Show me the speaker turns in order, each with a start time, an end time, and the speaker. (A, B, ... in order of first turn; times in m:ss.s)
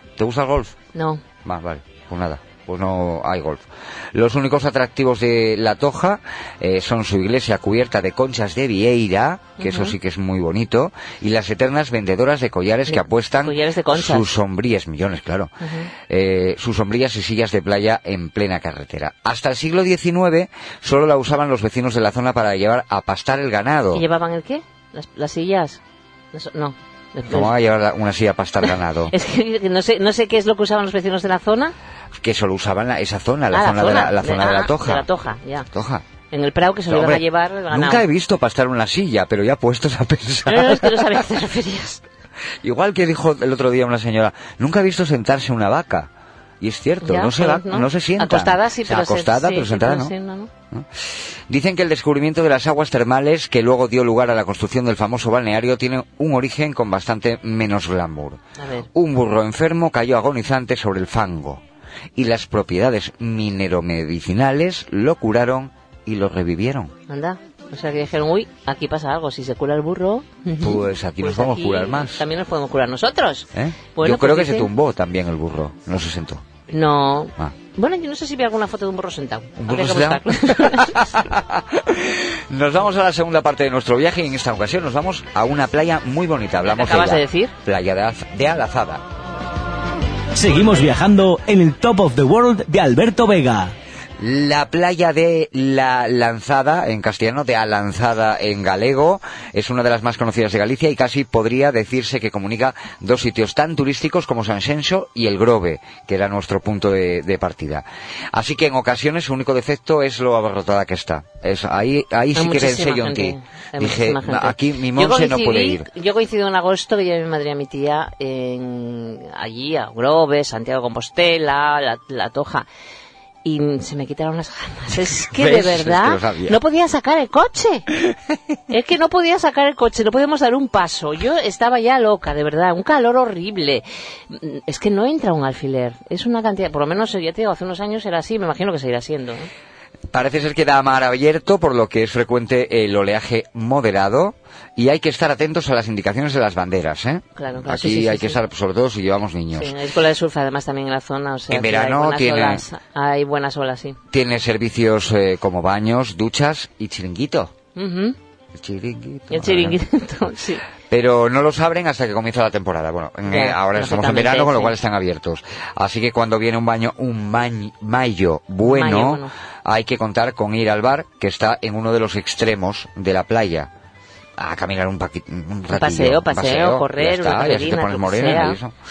0:00.2-0:00.7 A
0:00.9-0:01.2 B
0:01.4-0:15.5 A
0:09.6-0:10.0 B
0:12.9-0:14.3 B
0:15.6-0:15.9 B
0:16.1-0:24.0 A
0:23.9-0:25.8 B
0:26.3-0:27.5 B
0:27.3-0:29.1 A
0:28.6-0:31.7 B
0:32.1-0:35.1 A
0:33.5-0:35.7 B
0:35.7-0:36.0 A
0:36.3-0:38.0 B
0:36.9-0:41.2 A
0:40.4-0:42.0 B
0:42.6-0:50.1 A
0:47.0-0:50.5 B
0:51.5-0:58.4 A
0:58.6-0:58.9 B
0:58.9-1:01.6 A
1:02.2-1:06.9 A
1:07.1-1:14.7 B
1:10.6-1:12.2 A
1:13.5-1:16.4 A
1:16.7-1:21.1 B
1:19.6-1:29.0 A
1:26.6-1:27.5 B
1:30.3-1:33.7 C
1:34.2-1:55.9 A
1:52.3-2:02.7 B
2:03.4-2:07.9 B
2:05.1-2:06.6 A
2:08.7-2:19.5 B
2:20.1-2:29.7 A
2:27.4-2:28.4 B
2:29.5-2:34.0 B
2:31.5-2:32.6 A
2:34.1-2:37.5 A
2:37.7-2:38.2 B
2:38.5-2:39.8 A
2:39.3-2:40.6 B
2:40.9-2:53.7 A
2:43.2-2:44.7 B
2:48.6-2:49.3 B
2:54.4-2:58.7 A
2:55.7-2:58.6 B